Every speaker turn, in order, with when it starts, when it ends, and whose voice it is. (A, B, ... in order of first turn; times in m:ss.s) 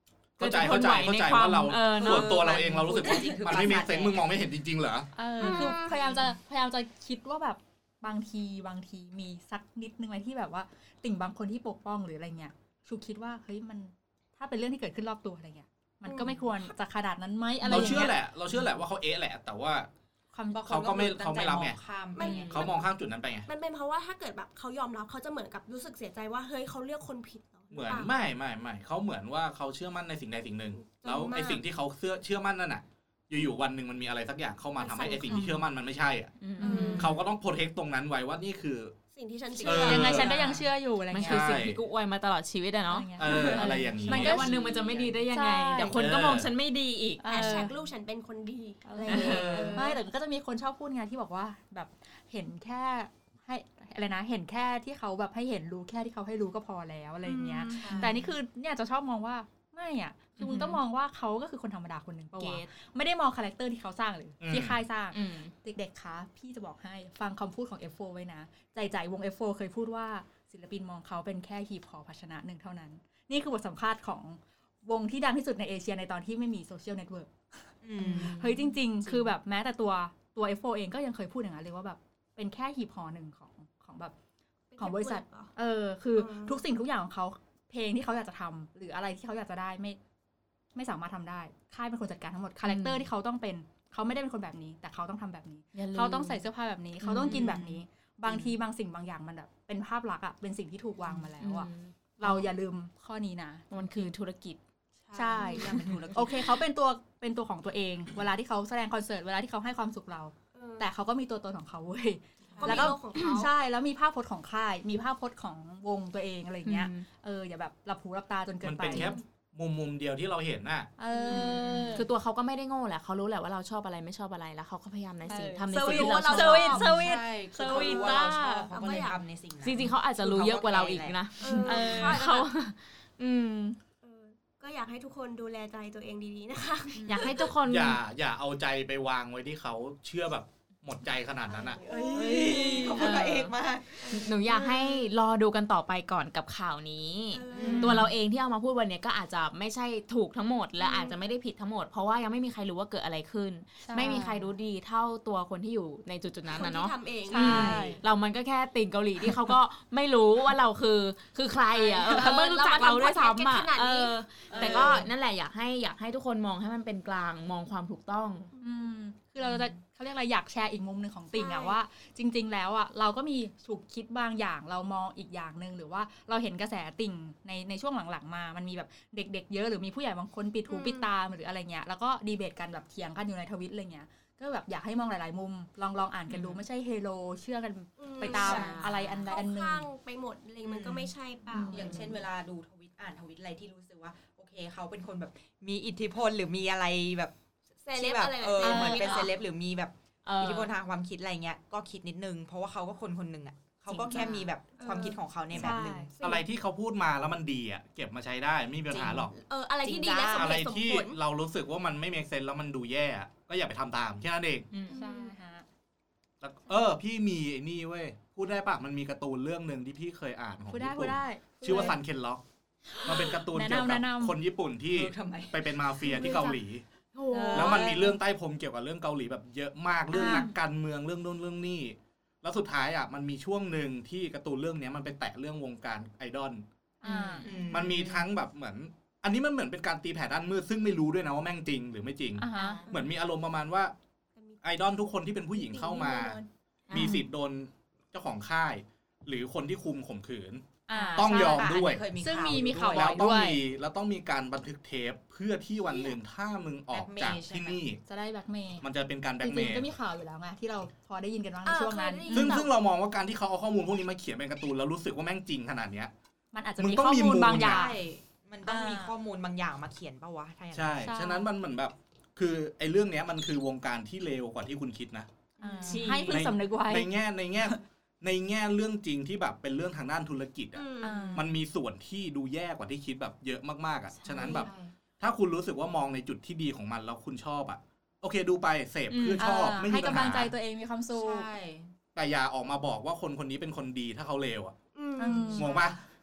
0:00.4-0:05.1 A
0:00.4-0:02.4 B
0:02.0-0:04.3 C
0:05.1-0:18.2 D
0:05.4-0:06.1 E
0:16.0-0:16.3 E
0:17.6-0:18.1 B
0:17.7-0:19.9 A
0:20.3-0:20.8 D
0:20.6-0:22.6 C
0:20.7-0:21.8 A
0:22.1-0:22.9 E
0:22.2-0:22.5 B
0:22.4-0:23.5 A
0:23.5-0:28.1 E
0:27.7-0:36.3 A
0:30.8-0:31.6 E
0:34.8-0:35.5 E
0:36.4-0:37.1 B
0:36.6-0:37.1 D
0:36.6-0:37.1 E
0:37.0-0:39.0 A
0:39.1-0:40.3 E
0:39.6-0:41.6 D
0:39.6-0:40.5 A
0:40.1-0:47.5 B
0:41.2-0:41.8 A
0:42.9-0:44.6 D
0:43.2-0:44.4 A
0:44.1-0:45.3 C
0:45.3-0:46.0 D
0:45.9-0:46.5 A
0:47.2-0:47.7 D
0:47.2-0:50.0 E
0:48.8-1:24.1 D
0:49.0-0:49.8 B
0:49.1-0:49.8 A
0:57.2-0:58.0 E
0:57.8-0:58.3 C
0:57.8-0:58.1 B
1:00.4-1:00.8 B
1:02.4-1:02.7 B
1:04.4-1:04.8 A
1:05.1-1:05.5 B
1:17.8-1:18.6 C
1:18.1-1:18.6 B
1:24.7-1:25.5 E
1:24.8-1:30.0 D
1:26.1-1:26.6 E
1:30.7-1:44.1 D
1:32.6-1:33.1 B
1:35.7-1:36.4 B
1:37.0-1:37.8 B
1:37.2-1:37.5 C
1:38.3-1:38.5 C
1:41.4-1:42.5 B
1:43.7-1:44.6 B
1:45.0-1:46.5 C
1:45.1-1:59.2 D
1:45.6-1:46.0 B
1:50.5-1:50.9 E
1:52.5-1:52.9 C
1:52.6-1:53.5 E
1:52.7-1:52.9 B
1:56.6-1:57.1 B
1:58.6-2:00.9 A
1:58.9-1:59.2 E
2:01.0-2:02.1 D
2:01.1-2:01.6 E
2:01.3-2:07.1 B
2:01.3-2:02.0 C
2:05.3-2:08.6 D
2:05.7-2:07.0 E
2:06.7-2:11.8 C
2:07.6-2:08.2 B
2:07.6-2:09.2 E
2:09.6-2:13.8 B
2:11.4-2:12.5 E
2:11.7-2:12.3 D
2:14.0-2:17.5 E
2:16.9-2:17.3 C
2:17.1-2:18.0 B
2:17.6-2:21.8 A
2:21.5-2:23.0 E
2:21.8-2:24.3 C
2:21.9-2:48.5 B
2:24.0-2:25.0 E
2:27.3-2:28.0 E
2:27.5-2:28.1 C
2:27.6-2:28.1 D
2:30.8-2:31.1 E
2:33.8-2:34.5 D
2:36.5-2:37.7 E
2:37.3-2:38.0 D
2:37.3-2:38.0 C
2:41.8-2:45.0 E
2:42.0-2:42.3 D
2:44.5-2:45.1 C
2:48.6-3:09.9 D
2:49.4-2:49.8 C
2:51.3-2:51.8 E
3:00.7-3:01.1 E
3:06.3-3:06.6 B
3:08.0-3:12.0 E
3:08.2-3:09.3 B
3:08.5-3:08.8 C
3:10.6-3:11.1 C
3:11.5-3:12.2 D
3:11.7-3:17.3 C
3:11.7-3:12.1 B
3:17.8-3:19.4 E
3:17.9-3:26.1 C
3:18.6-3:19.2 B
3:18.6-3:19.2 D
3:20.2-3:20.7 B
3:23.9-3:24.5 B
3:24.8-3:25.2 E
3:24.9-3:26.1 D
3:26.2-3:29.3 A
3:28.9-3:29.3 C
3:28.9-3:31.2 E
3:29.8-3:30.6 C
3:30.3-3:34.7 A
3:34.7-3:35.0 B
3:34.9-3:35.3 E
3:34.9-3:35.6 D
3:36.4-3:42.4 A
3:40.7-3:42.0 D
3:43.0-3:44.4 D
3:43.0-3:46.8 A
3:44.9-3:45.7 C
3:46.1-3:46.5 D
3:47.1-3:47.9 B
3:47.3-3:48.2 D
3:47.5-3:48.0 C
3:47.5-3:56.6 A
3:50.1-3:50.5 D
3:57.0-3:57.5 D
3:57.0-3:57.6 B
3:57.4-3:58.2 C
3:57.7-4:03.9 A
4:02.4-4:02.8 D
4:02.5-4:02.9 B
4:04.4-4:04.6 E
4:04.6-4:06.4 A
4:05.5-4:06.5 E
4:06.9-4:07.2 B
4:06.9-4:10.6 A
4:10.9-4:13.6 D
4:11.1-4:13.2 C
4:11.1-4:12.0 A
4:12.9-4:18.0 A
4:16.9-4:17.8 C
4:18.0-4:18.8 D
4:18.8-4:19.9 A
4:19.4-4:22.7 D
4:21.6-4:22.5 E
4:21.6-4:22.7 B
4:22.3-4:26.1 A
4:26.5-4:28.0 D
4:26.8-4:27.9 A
4:27.5-4:31.1 C
4:28.6-4:29.2 D
4:30.7-4:35.3 A
4:31.0-4:31.5 D
4:35.6-4:36.3 C
4:35.6-4:37.1 D
4:35.8-4:36.4 B
4:36.3-4:50.5 A
4:40.7-4:41.4 E
4:41.0-4:41.5 D
4:44.3-4:44.9 C
4:44.3-4:44.7 B
4:49.1-4:49.4 B
4:49.4-4:51.5 D
4:51.1-4:51.9 C
4:52.1-4:54.7 A
4:54.9-4:55.9 E
4:55.2-4:55.8 D
4:55.5-4:56.0 A